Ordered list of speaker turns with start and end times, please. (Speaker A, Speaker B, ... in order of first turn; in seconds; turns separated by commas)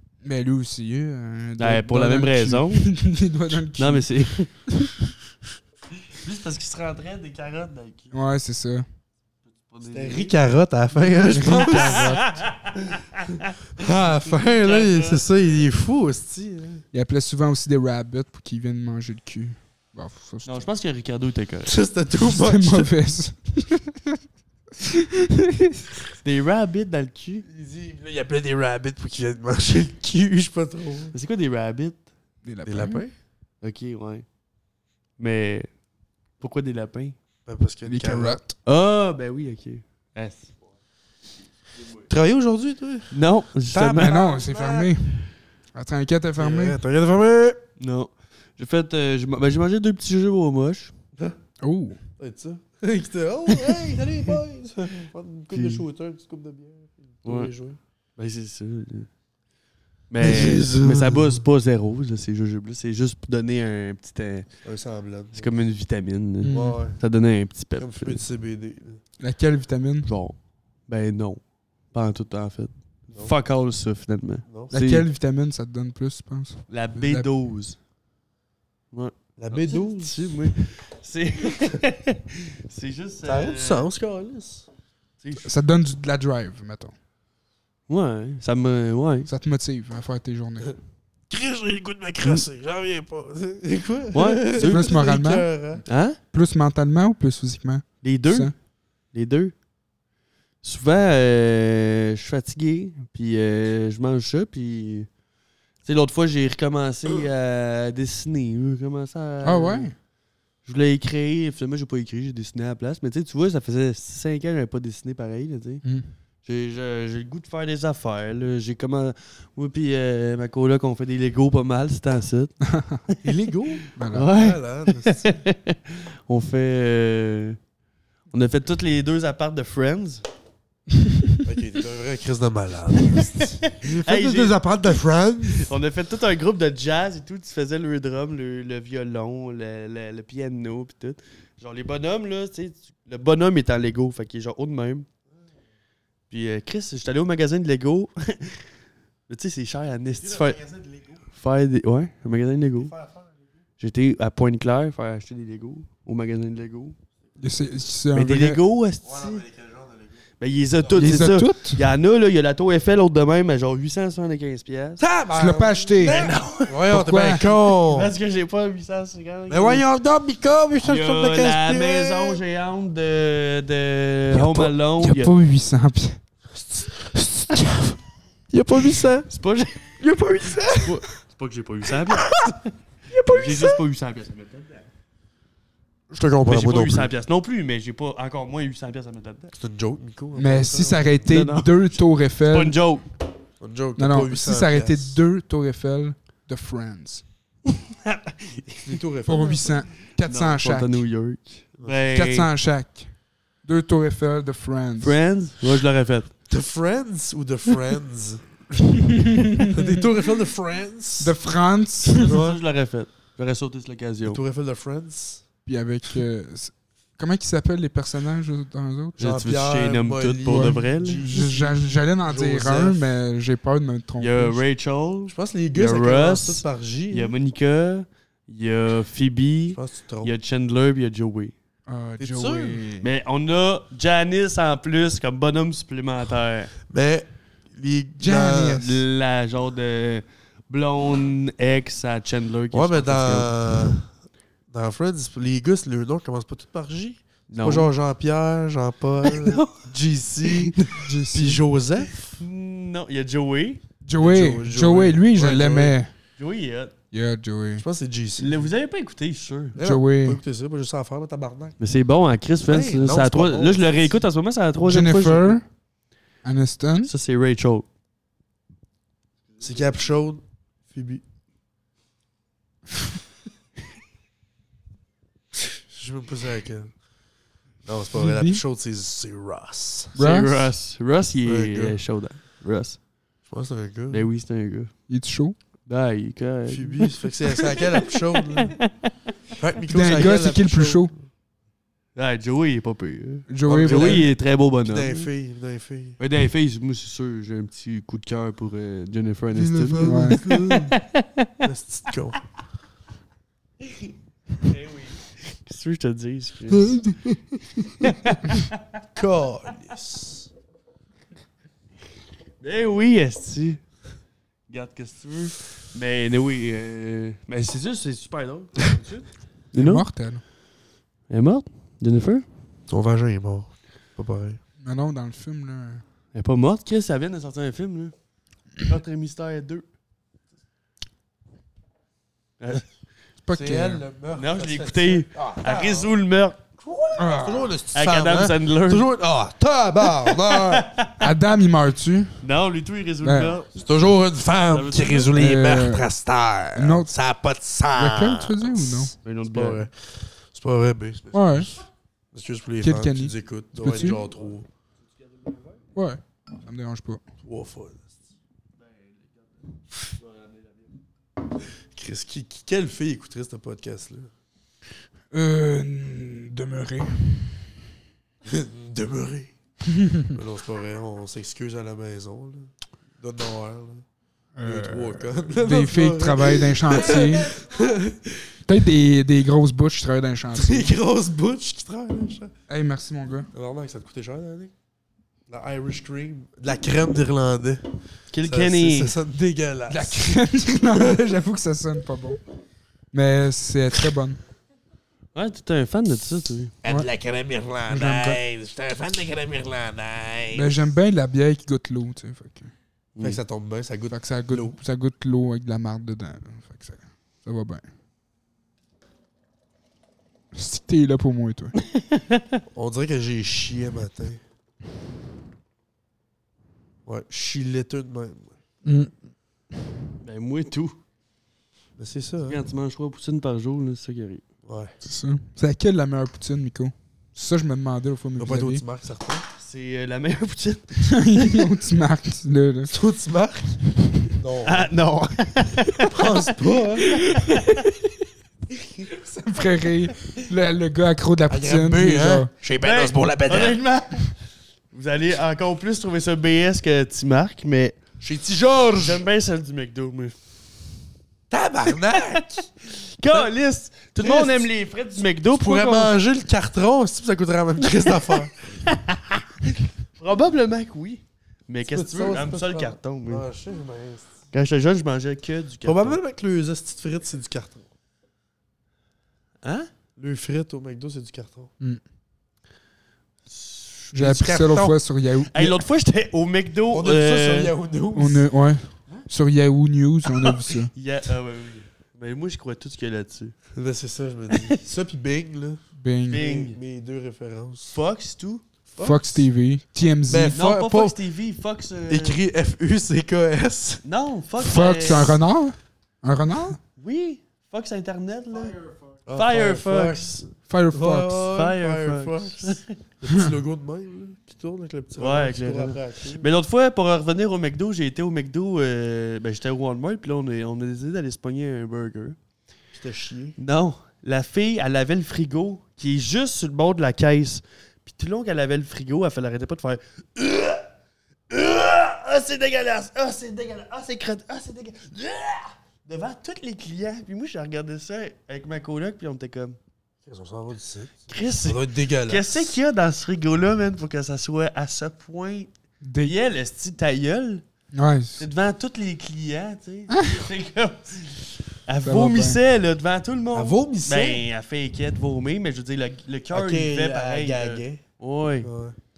Speaker A: 0.2-4.1, Speaker B: 1.6-2.9, Speaker B: 3.8-4.5, Speaker B: 6.0-8.1, Speaker A: 8.1-8.8, Speaker B: 9.6-10.3, Speaker C: 9.8-12.1, Speaker A: 11.3-12.3, Speaker B: 11.4-13.5, Speaker C: 13.8-16.8, Speaker B: 14.2-15.2, Speaker A: 16.9-20.6, Speaker B: 20.4-21.8, Speaker C: 21.6-22.9, Speaker A: 22.2-24.2, Speaker A: 24.8-25.8, Speaker B: 26.2-27.4, Speaker C: 27.4-31.1, Speaker B: 31.1-32.0, Speaker A: 32.4-33.0, Speaker C: 32.6-33.1, Speaker B: 33.6-34.2, Speaker B: 35.2-35.7, Speaker B: 36.4-37.1, Speaker C: 37.5-38.4, Speaker A: 37.9-38.5, Speaker B: 38.6-40.5, Speaker C: 42.1-43.1, Speaker B: 43.1-44.2, Speaker C: 43.7-44.9, Speaker A: 44.0-46.8, Speaker C: 46.4-47.6, Speaker B: 47.8-50.9, Speaker A: 51.6-52.0, Speaker C: 52.2-57.8, Speaker B: 53.5-53.9, Speaker B: 55.5-55.8, Speaker B: 57.2-57.5, Speaker B: 58.2-59.1, Speaker B: 60.1-64.5, Speaker C: 60.2-61.4, Speaker C: 64.6-65.5, Speaker B: 65.3-68.2, Speaker A: 66.4-66.8, Speaker C: 66.5-67.0, Speaker C: 67.8-69.0, Speaker A: 69.2-70.1, Speaker B: 70.0-70.4, Speaker B: 70.9-71.4, Speaker B: 71.9-75.0, Speaker A: 74.7-77.3, Speaker B: 76.7-77.8, Speaker B: 78.9-83.9, Speaker C: 79.4-80.5, Speaker C: 83.2-84.7, Speaker B: 85.2-85.5, Speaker A: 85.4-86.9, Speaker B: 87.9-89.3, Speaker A: 89.3-90.7, Speaker C: 91.3-95.8, Speaker B: 94.1-94.9, Speaker A: 94.6-95.5, Speaker B: 95.8-96.2, Speaker A: 96.3-98.5, Speaker B: 98.0-98.5, Speaker B: 99.1-99.5, Speaker B: 100.6-105.1, Speaker B: 105.8-109.9, Speaker A: 109.4-109.9, Speaker B: 110.6-115.8, Speaker B: 116.4-123.3, Speaker A: 122.7-123.0, Speaker C: 123.2-125.3, Speaker B: 123.9-127.6, Speaker A: 124.0-124.3, Speaker B: 128.3-130.2, Speaker C: 131.4-135.7, Speaker B: 132.9-145.1, Speaker B: 146.3-148.7, Speaker B: 149.3-150.6, Speaker C: 150.2-151.2, Speaker B: 151.3-152.9, Speaker C: 152.8-153.3, Speaker B: 153.8-156.9, Speaker A: 157.4-158.6, Speaker B: 158.1-159.4, Speaker C: 159.0-160.2, Speaker B: 160.4-165.0, Speaker C: 160.8-161.3, Speaker A: 160.9-161.8, Speaker C: 165.0-168.1, Speaker A: 165.3-167.5, Speaker B: 166.0-166.8, Speaker B: 167.8-169.8, Speaker C: 169.5-172.4, Speaker B: 170.8-175.3, Speaker C: 174.3-174.7, Speaker A: 174.5-176.2, Speaker C: 176.6-177.6, Speaker A: 177.5-177.9, Speaker C: 178.5-179.3, Speaker B: 179.3-180.0, Speaker C: 180.0-181.0, Speaker A: 180.4-180.8, Speaker B: 180.7-182.7, Speaker C: 183.1-183.8, Speaker B: 183.2-184.9, Speaker C: 186.1-187.1, Speaker B: 186.4-189.5, Speaker C: 189.6-191.2, Speaker A: 190.3-192.8, Speaker B: 191.2-193.1, Speaker C: 193.6-195.2, Speaker A: 194.0-197.2, Speaker B: 197.7-199.0, Speaker C: 198.8-199.6, Speaker A: 199.2-201.0, Speaker B: 200.2-202.5, Speaker A: 202.1-203.1, Speaker A: 203.6-205.2, Speaker B: 205.0-206.3, Speaker C: 206.5-208.4, Speaker A: 208.8-210.0, Speaker C: 209.6-211.3, Speaker A: 211.2-212.3, Speaker B: 212.2-214.4, Speaker C: 212.2-212.6, Speaker C: 214.2-215.4, Speaker A: 215.7-219.2, Speaker C: 219.2-223.1, Speaker B: 219.2-221.3, Speaker A: 220.4-224.6, Speaker B: 224.2-231.5, Speaker C: 225.3-227.3, Speaker C: 229.7-230.3, Speaker A: 231.9-233.1, Speaker C: 232.2-232.8, Speaker B: 233.0-236.7, Speaker C: 236.9-238.9, Speaker A: 238.2-239.0, Speaker B: 238.8-243.5, Speaker C: 242.7-244.1, Speaker C: 244.7-250.8, Speaker B: 247.5-247.9, Speaker B: 249.2-249.8, Speaker B: 250.4-251.0, Speaker A: 250.8-251.6, Speaker C: 251.3-252.4, Speaker B: 252.4-253.8, Speaker A: 254.0-256.1, Speaker C: 254.2-256.0, Speaker B: 256.4-256.9, Speaker A: 257.1-257.8, Speaker C: 257.8-258.7, Speaker B: 258.4-259.8, Speaker C: 259.7-261.8, Speaker A: 259.8-260.4, Speaker B: 261.8-265.6, Speaker C: 262.7-264.2, Speaker A: 264.8-265.6, Speaker A: 266.4-267.1, Speaker B: 267.0-267.9, Speaker C: 269.6-271.2, Speaker C: 275.7-276.9, Speaker C: 277.8-280.1, Speaker A: 278.1-278.6, Speaker B: 280.1-283.0, Speaker A: 280.1-280.6, Speaker C: 281.4-282.0, Speaker C: 283.5-284.2, Speaker B: 284.1-284.9, Speaker A: 285.1-285.6, Speaker B: 285.9-289.1, Speaker C: 286.7-288.8, Speaker C: 289.6-291.1, Speaker A: 289.9-291.1, Speaker B: 292.1-295.3, Speaker A: 293.5-294.3, Speaker C: 293.6-296.2, Speaker B: 296.2-301.5, Speaker C: 299.5-301.0, Speaker A: 300.0-300.4, Speaker C: 301.6-302.4, Speaker B: 304.6-307.0, Speaker C: 306.7-308.1, Speaker B: 308.0-309.0, Speaker C: 309.1-310.5, Speaker B: 312.6-313.8, Speaker B: 314.7-320.1, Speaker A: 319.7-320.4, Speaker B: 321.3-322.4, Speaker C: 322.9-324.6, Speaker A: 324.8-326.0, Speaker B: 326.3-328.1, Speaker B: 328.8-329.8, Speaker B: 332.6-332.9, Speaker A: 333.4-334.0, Speaker C: 333.5-336.1, Speaker B: 334.4-336.6, Speaker C: 336.8-340.9, Speaker A: 337.2-337.7, Speaker B: 337.9-339.1, Speaker B: 340.2-341.1, Speaker A: 341.2-342.4, Speaker B: 342.4-343.8, Speaker A: 343.2-343.5, Speaker C: 343.7-354.7, Speaker B: 344.7-345.3, Speaker A: 345.3-346.1, Speaker A: 346.7-347.1, Speaker A: 347.9-349.1, Speaker B: 349.2-349.8, Speaker A: 351.3-351.7, Speaker A: 352.8-354.2, Speaker A: 355.9-357.2, Speaker C: 357.4-358.1, Speaker B: 360.1-360.6, Speaker C: 361.9-364.3, Speaker A: 365.3-367.6, Speaker C: 368.4-369.5, Speaker A: 369.9-370.4, Speaker C: 370.3-374.0, Speaker A: 374.6-377.5, Speaker C: 374.6-378.5, Speaker A: 378.7-380.9, Speaker C: 380.5-382.5, Speaker A: 382.7-383.5, Speaker C: 383.5-384.7, Speaker C: 385.5-387.8, Speaker B: 388.3-389.1, Speaker C: 388.4-390.4, Speaker A: 389.9-392.4, Speaker C: 390.9-391.2, Speaker A: 393.1-394.4, Speaker B: 395.3-396.7, Speaker C: 396.8-400.7, Speaker A: 397.9-398.4, Speaker A: 400.5-402.7, Speaker C: 403.2-404.8, Speaker A: 404.1-407.8, Speaker A: 410.5-411.8, Speaker B: 411.9-412.6, Speaker C: 412.7-414.4, Speaker C: 417.1-418.6, Speaker A: 418.8-419.1, Speaker B: 420.2-421.0, Speaker C: 422.0-422.6, Speaker B: 422.4-424.4, Speaker C: 424.6-424.9, Speaker A: 425.0-428.8, Speaker C: 428.4-429.4, Speaker B: 429.6-431.6, Speaker A: 431.0-432.9, Speaker C: 432.9-433.8, Speaker A: 433.9-434.3, Speaker C: 434.3-434.9, Speaker B: 434.6-436.5, Speaker C: 436.1-437.2, Speaker B: 437.1-437.8, Speaker A: 437.2-437.9, Speaker A: 439.4-442.5, Speaker C: 441.5-443.8, Speaker B: 442.8-444.3, Speaker B: 444.9-448.1, Speaker C: 448.2-449.2, Speaker B: 448.9-450.4, Speaker C: 451.5-452.6, Speaker B: 451.9-456.1, Speaker C: 454.2-454.7, Speaker C: 455.5-458.5, Speaker B: 458.1-463.5, Speaker C: 461.9-464.4, Speaker B: 464.5-466.2, Speaker C: 465.8-467.9, Speaker B: 469.6-469.9, Speaker C: 470.2-471.7, Speaker B: 473.5-474.1, Speaker A: 474.1-475.8, Speaker C: 474.1-475.0, Speaker B: 475.5-477.7, Speaker C: 476.9-478.5, Speaker A: 478.1-480.9, Speaker B: 480.5-483.6, Speaker C: 483.7-487.9, Speaker B: 484.5-484.8, Speaker A: 486.0-486.4, Speaker B: 486.3-486.8, Speaker B: 487.9-488.6, Speaker C: 488.9-489.4, Speaker A: 489.0-490.6, Speaker C: 490.3-491.2, Speaker B: 490.5-492.4, Speaker C: 492.1-494.0, Speaker B: 494.0-495.4, Speaker A: 494.6-496.8, Speaker B: 497.0-500.4, Speaker C: 499.2-506.5, Speaker A: 500.7-501.4, Speaker B: 501.4-502.9, Speaker B: 505.2-512.4, Speaker C: 512.9-513.6, Speaker B: 513.6-520.9, Speaker B: 521.5-529.8, Speaker C: 530.2-532.8, Speaker B: 531.3-535.7, Speaker A: 536.0-536.3, Speaker B: 536.2-537.6, Speaker A: 537.9-538.4, Speaker B: 538.4-548.7, Speaker A: 540.1-540.4, Speaker A: 542.0-542.6, Speaker C: 543.5-544.4, Speaker C: 546.5-548.0, Speaker C: 548.6-549.0